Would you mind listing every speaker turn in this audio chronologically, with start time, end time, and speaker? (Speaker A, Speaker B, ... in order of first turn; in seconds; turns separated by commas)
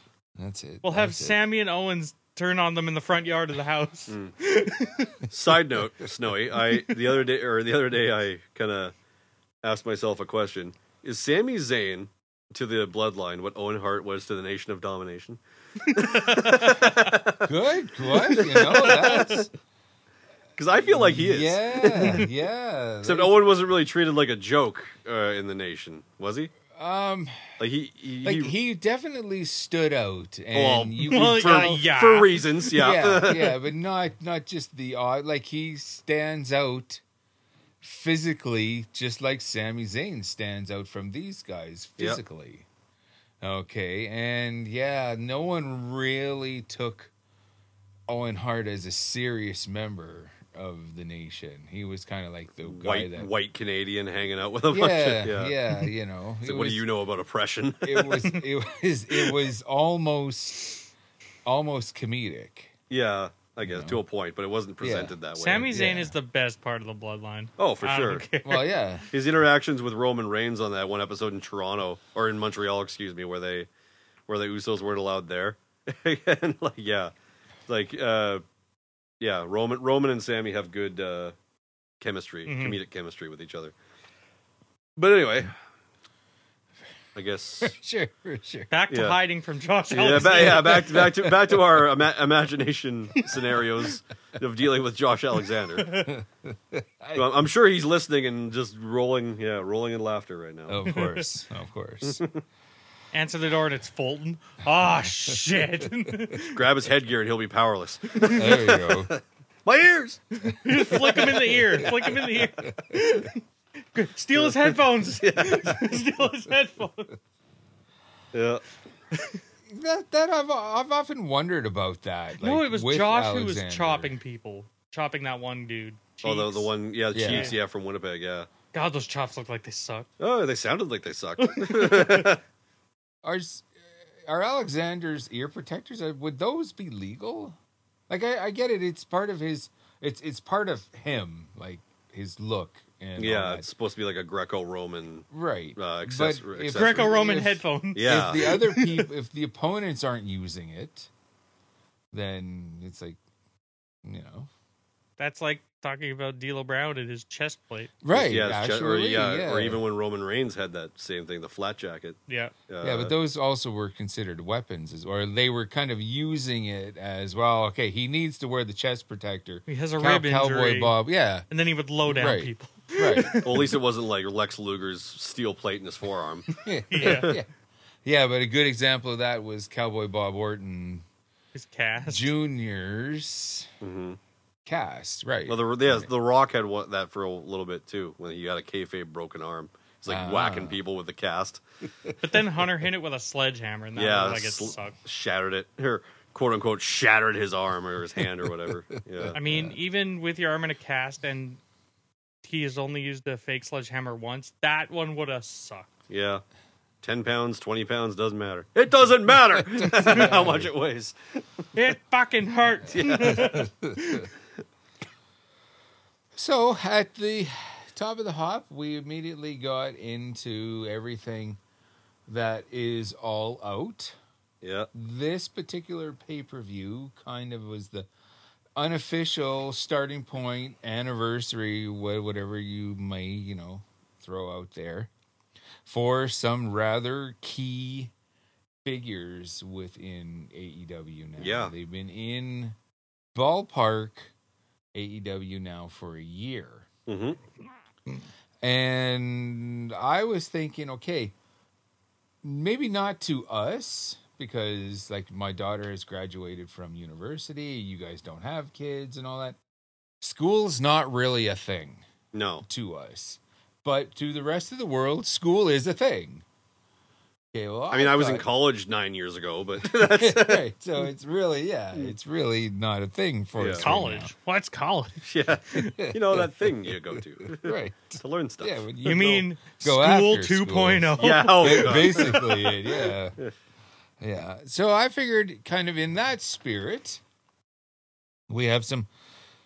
Speaker A: 0.4-1.4, Speaker B: 0.8-5.2, Speaker C: 5.3-8.9, Speaker C: 9.6-17.5, Speaker B: 15.9-16.9, Speaker A: 17.4-19.5, Speaker C: 18.3-19.4, Speaker B: 18.7-19.4, Speaker C: 20.6-22.3, Speaker A: 20.8-23.4, Speaker C: 23.0-26.5, Speaker A: 26.7-27.6, Speaker C: 27.6-28.5, Speaker A: 28.2-31.8, Speaker C: 30.5-33.5, Speaker B: 31.0-32.7, Speaker A: 32.8-37.0, Speaker A: 37.8-42.7, Speaker A: 43.4-47.1, Speaker A: 48.1-53.3, Speaker C: 52.6-55.6, Speaker A: 54.7-56.9, Speaker C: 56.4-58.2, Speaker A: 57.8-60.8, Speaker A: 61.5-62.7, Speaker C: 62.9-65.7, Speaker A: 63.6-64.0, Speaker A: 64.8-65.2, Speaker B: 65.4-68.7, Speaker A: 65.7-66.2, Speaker C: 67.6-68.2, Speaker A: 68.4-69.1, Speaker C: 69.1-73.7, Speaker C: 74.3-77.1, Speaker C: 77.7-78.4, Speaker C: 79.2-81.3, Speaker C: 82.0-83.7, Speaker B: 82.5-82.8, Speaker C: 85.0-85.5, Speaker C: 87.2-87.8, Speaker A: 87.6-88.7, Speaker B: 88.7-91.0, Speaker C: 88.9-89.2, Speaker C: 89.9-95.9, Speaker A: 90.1-91.6, Speaker B: 95.8-96.1, Speaker A: 96.0-97.3, Speaker C: 97.2-100.9, Speaker A: 100.7-102.2, Speaker B: 100.9-101.3, Speaker C: 102.0-102.4, Speaker B: 103.1-106.6, Speaker C: 106.5-111.9, Speaker B: 108.2-108.5, Speaker A: 108.3-109.1, Speaker B: 110.5-113.4, Speaker A: 111.9-112.2, Speaker B: 113.9-117.1, Speaker C: 114.3-116.0, Speaker C: 118.3-118.6, Speaker A: 119.7-124.1, Speaker B: 122.4-126.7, Speaker C: 126.2-128.5, Speaker A: 127.1-127.5, Speaker B: 127.2-127.6, Speaker B: 128.7-130.1, Speaker C: 130.2-132.4, Speaker B: 131.4-132.3, Speaker A: 133.2-133.7, Speaker A: 134.2-137.6, Speaker A: 138.1-143.7, Speaker C: 143.2-147.1, Speaker A: 145.3-151.1, Speaker B: 146.7-149.1, Speaker C: 147.9-148.5, Speaker A: 152.1-153.2, Speaker A: 154.0-154.5, Speaker B: 155.2-157.9, Speaker A: 158.0-159.8, Speaker C: 158.1-162.2, Speaker B: 162.3-162.5, Speaker C: 162.7-163.1, Speaker A: 162.8-171.5, Speaker B: 169.7-171.0, Speaker B: 171.5-173.7, Speaker A: 172.1-173.4, Speaker C: 173.4-177.3, Speaker A: 176.6-177.5, Speaker B: 176.9-177.3, Speaker A: 178.0-181.1, Speaker B: 181.5-182.3, Speaker A: 182.1-183.7, Speaker C: 183.8-184.2, Speaker A: 184.7-186.1, Speaker C: 185.5-191.6, Speaker A: 190.1-190.8, Speaker B: 192.2-195.0, Speaker C: 194.0-199.4, Speaker A: 199.2-199.8, Speaker B: 199.3-201.6, Speaker B: 202.4-205.9, Speaker C: 206.1-206.4, Speaker C: 207.0-211.4, Speaker A: 209.8-210.7, Speaker B: 210.1-210.4, Speaker B: 211.8-214.3, Speaker C: 212.9-213.6, Speaker A: 213.3-214.0, Speaker A: 216.3-221.6, Speaker A: 222.3-224.2, Speaker C: 224.6-224.9, Speaker A: 224.9-228.1, Speaker A: 228.8-235.1, Speaker A: 235.8-238.1, Speaker A: 238.8-242.8, Speaker C: 241.4-241.7, Speaker A: 243.3-244.3, Speaker A: 244.9-246.9, Speaker C: 247.1-247.4, Speaker A: 248.6-251.3, Speaker A: 252.4-259.6, Speaker A: 260.2-262.1, Speaker C: 262.3-262.6, Speaker A: 262.6-266.4, Speaker A: 267.5-268.5, Speaker C: 267.9-270.7, Speaker A: 269.8-274.3, Speaker C: 273.6-273.9, Speaker B: 273.8-275.9, Speaker C: 275.2-279.2, Speaker A: 275.8-283.4, Speaker B: 279.0-282.4, Speaker C: 281.2-282.8, Speaker A: 284.2-287.2, Speaker A: 288.5-289.1